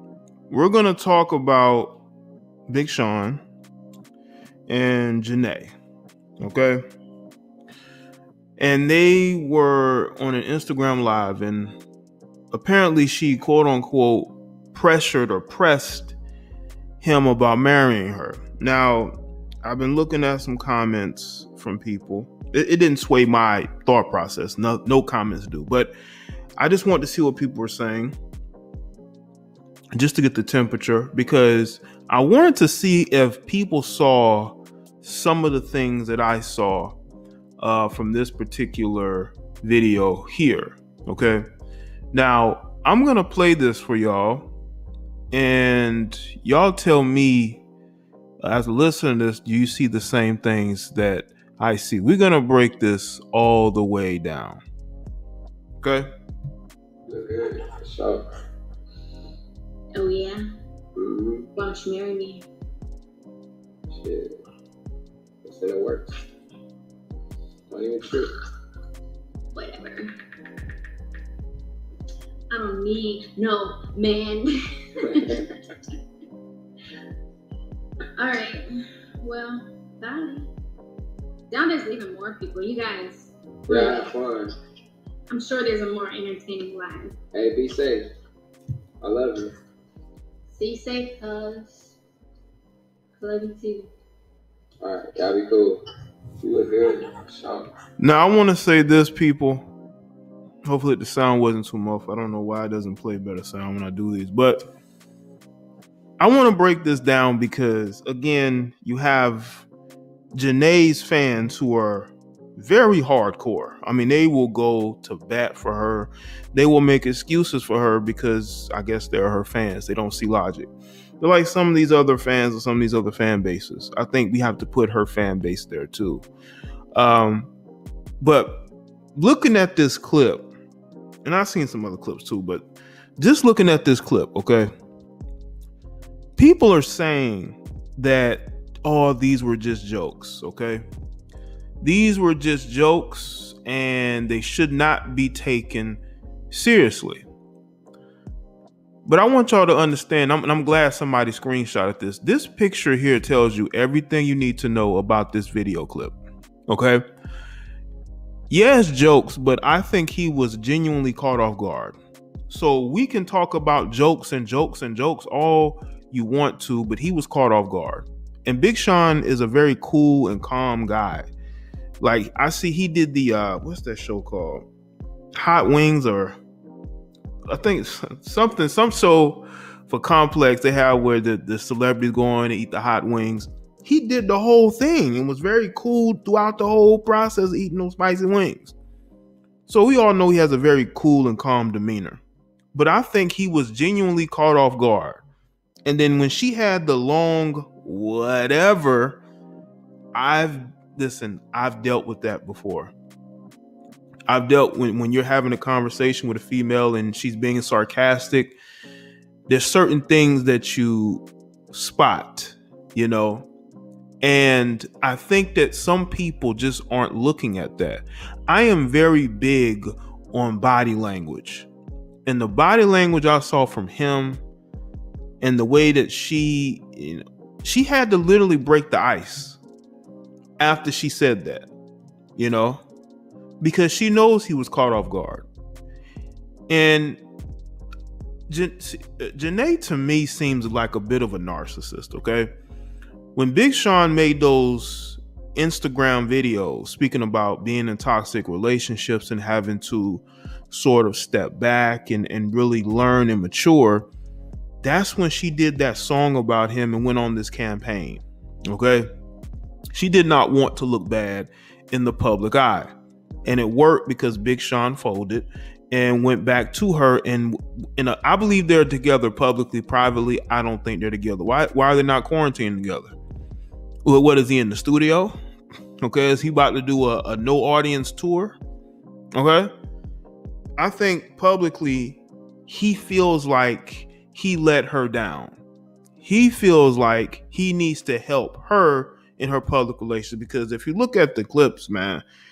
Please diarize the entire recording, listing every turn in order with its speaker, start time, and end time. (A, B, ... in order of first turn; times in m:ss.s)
0:00.5-0:02.0 A
0:02.7-0:03.4 A
0:04.7-0:05.7 A
0:06.4-0:06.8 A
0:08.6-0:11.8 A
0:12.5-0:16.2 A
0:17.0-0:25.9 A
0:26.6-0:28.2 A
0:30.0-0:37.0 A
0:37.6-0:41.5 A
0:42.1-0:44.5 A
0:45.3-0:47.6 A
0:48.4-0:54.6 A
0:55.8-0:56.1 A
0:57.1-0:58.2 B
0:59.9-1:00.4 C
1:01.0-1:01.5 B
1:01.6-1:02.4 C
1:03.9-1:04.4 B
1:05.4-1:06.1 B
1:07.7-1:08.3 B
1:09.5-1:10.1 C
1:12.5-1:15.5 C
1:18.2-1:18.7 C
1:19.2-1:20.5 C
1:21.5-1:24.1 C
1:23.7-1:24.5 B
1:25.3-1:27.2 C
1:27.3-1:28.1 B
1:29.0-1:29.5 B
1:30.5-1:32.0 C
1:33.2-1:33.9 C
1:34.8-1:35.8 B
1:36.4-1:37.7 B
1:38.0-1:39.7 A
1:40.6-1:44.7 A
1:46.2-1:49.7 A
1:50.3-2:00.7 A
2:01.2-2:06.2 A
2:07.0-2:07.5 A
2:08.2-2:10.5 A
2:11.2-2:12.6 A
2:13.2-2:14.7 A
2:16.4-2:20.8 A
2:21.8-2:27.2 A
2:29.1-2:36.2 A
2:36.7-2:37.0 A
2:38.5-2:42.0 A
2:42.5-2:51.3 A
2:52.0-2:54.7 A
2:55.4-2:56.4 A
2:57.5-3:08.8 A
3:09.7-3:12.2 A
3:12.7-3:15.2 A
3:15.9-3:19.2 A
3:20.1-3:22.9 A
3:24.3-3:28.6 A
3:29.5-3:33.5 A
3:34.2-3:41.7 A
3:42.3-3:44.4 A
3:45.4-3:49.6 A
3:50.6-3:51.7 A
3:52.4-3:52.8 A
3:53.6-3:55.5 A
3:56.7-3:57.2 A
3:58.5-4:02.5 A
4:03.4-4:14.1 A
4:14.8-4:19.1 A
4:19.9-4:22.9 A
4:23.5-4:33.1 A
4:34.0-4:35.4 A
4:36.0-4:38.6 A
4:39.4-4:39.7 A
4:40.8-4:45.6 A
4:46.2-4:52.2 A